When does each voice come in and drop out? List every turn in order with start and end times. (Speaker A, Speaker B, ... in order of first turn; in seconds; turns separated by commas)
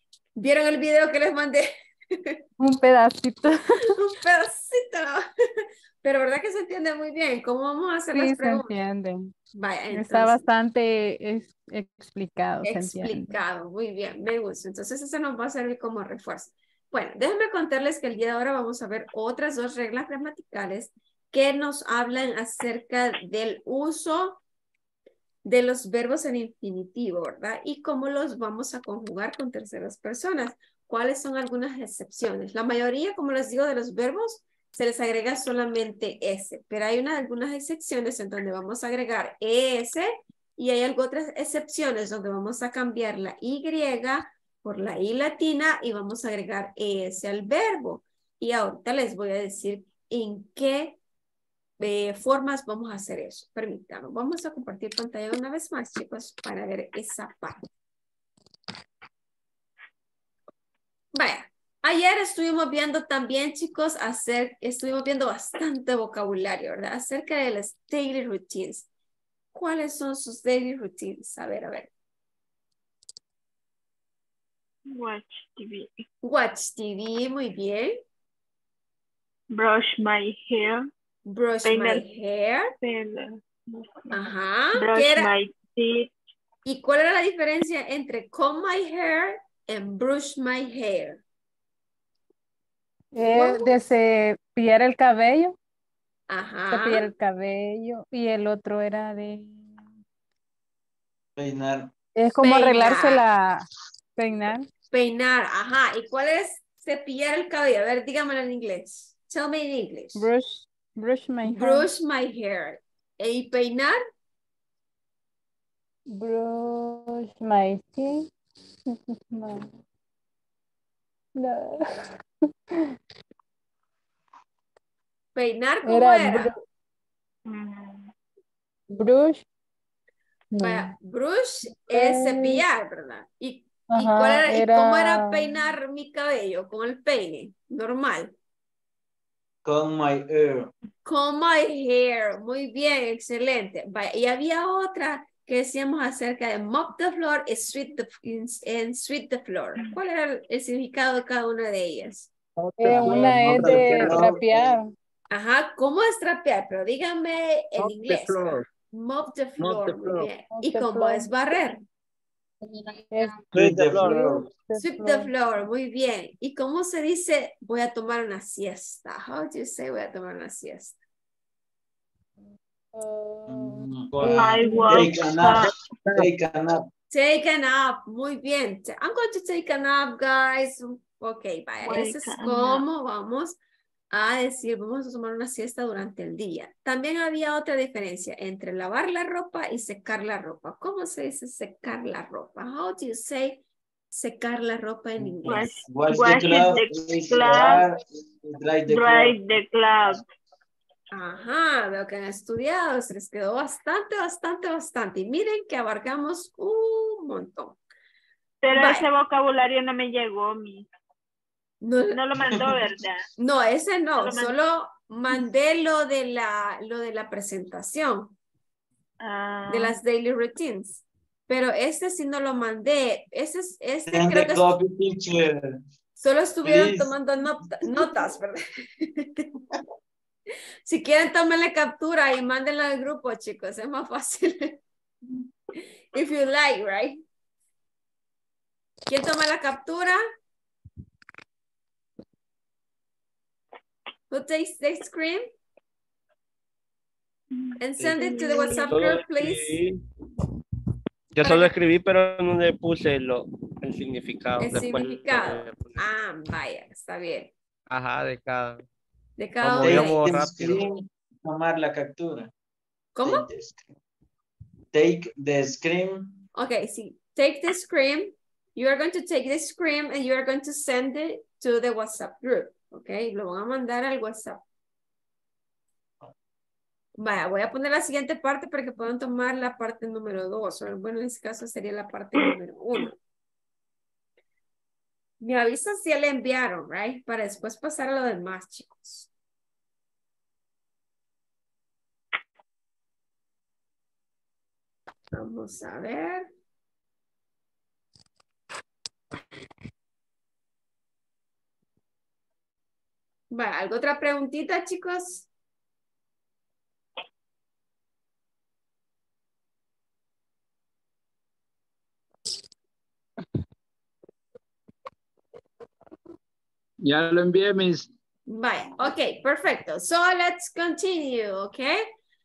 Speaker A: 0.3-2.4, Speaker B: 2.6-3.8, Speaker A: 3.9-8.7, Speaker B: 8.1-9.3, Speaker A: 9.5-10.5, Speaker B: 9.9-13.4, Speaker A: 12.6-24.4, Speaker A: 25.4-51.0, Speaker A: 51.8-57.6, Speaker A: 61.1-68.9, Speaker A: 69.5-71.9, Speaker C: 74.9-76.0, Speaker A: 76.2-78.0, Speaker C: 79.5-80.9, Speaker A: 81.2-82.7, Speaker C: 81.6-82.0, Speaker C: 82.8-86.1, Speaker A: 84.1-85.3, Speaker A: 86.6-91.2, Speaker B: 93.1-95.5, Speaker A: 93.2-93.7, Speaker A: 96.3-97.1, Speaker B: 96.7-99.7, Speaker D: 101.4-101.9, Speaker B: 102.2-103.6, Speaker A: 102.4-103.2, Speaker B: 104.2-104.7, Speaker A: 104.9-110.3, Speaker B: 110.2-111.9, Speaker A: 111.4-114.0, Speaker B: 116.1-118.3, Speaker B: 118.9-119.7, Speaker B: 121.3-122.0, Speaker A: 125.3-126.5, Speaker B: 125.8-126.5, Speaker C: 127.5-128.1, Speaker B: 128.9-129.4, Speaker B: 130.5-130.9, Speaker A: 130.6-138.3, Speaker B: 131.9-132.6, Speaker B: 133.9-135.6, Speaker D: 139.6-140.7, Speaker A: 141.0-152.3, Speaker E: 152.6-154.4, Speaker B: 152.8-154.9, Speaker D: 152.9-154.7, Speaker A: 155.3-161.8, Speaker E: 157.8-158.7, Speaker E: 159.6-160.3, Speaker B: 160.4-161.3, Speaker B: 162.7-165.3, Speaker E: 163.5-164.3, Speaker D: 163.5-164.5, Speaker A: 164.8-170.9, Speaker B: 172.9-175.1, Speaker D: 173.5-176.9, Speaker F: 174.1-174.4, Speaker C: 174.3-175.7, Speaker A: 177.1-183.6, Speaker C: 181.8-182.8, Speaker A: 184.1-195.6, Speaker D: 195.2-199.3, Speaker C: 195.5-197.9, Speaker C: 198.9-200.2, Speaker A: 201.1-207.8, Speaker C: 208.6-210.9, Speaker A: 208.7-209.1, Speaker A: 211.8-212.2, Speaker C: 212.1-213.2, Speaker A: 213.4-218.3, Speaker C: 214.2-214.6, Speaker C: 219.2-219.9, Speaker A: 219.7-224.7, Speaker D: 224.1-225.8, Speaker A: 226.2-229.4, Speaker D: 226.6-227.1, Speaker A: 230.8-234.8, Speaker A: 236.1-237.2, Speaker A: 239.1-240.2, Speaker A: 244.3-245.5, Speaker C: 247.5-248.9, Speaker A: 247.8-249.8, Speaker F: 248.9-250.0, Speaker F: 251.3-256.0, Speaker A: 251.4-251.7, Speaker A: 254.6-257.5, Speaker F: 257.9-258.8, Speaker A: 259.4-260.3, Speaker F: 259.6-260.8, Speaker D: 259.8-262.5, Speaker A: 263.1-263.5, Speaker D: 263.2-263.8, Speaker D: 264.9-266.3, Speaker A: 266.5-274.6, Speaker A: 277.2-283.1, Speaker A: 285.4-289.3, Speaker A: 295.3-296.5, Speaker A: 303.5-305.5, Speaker E: 317.0-318.1, Speaker A: 318.5-322.0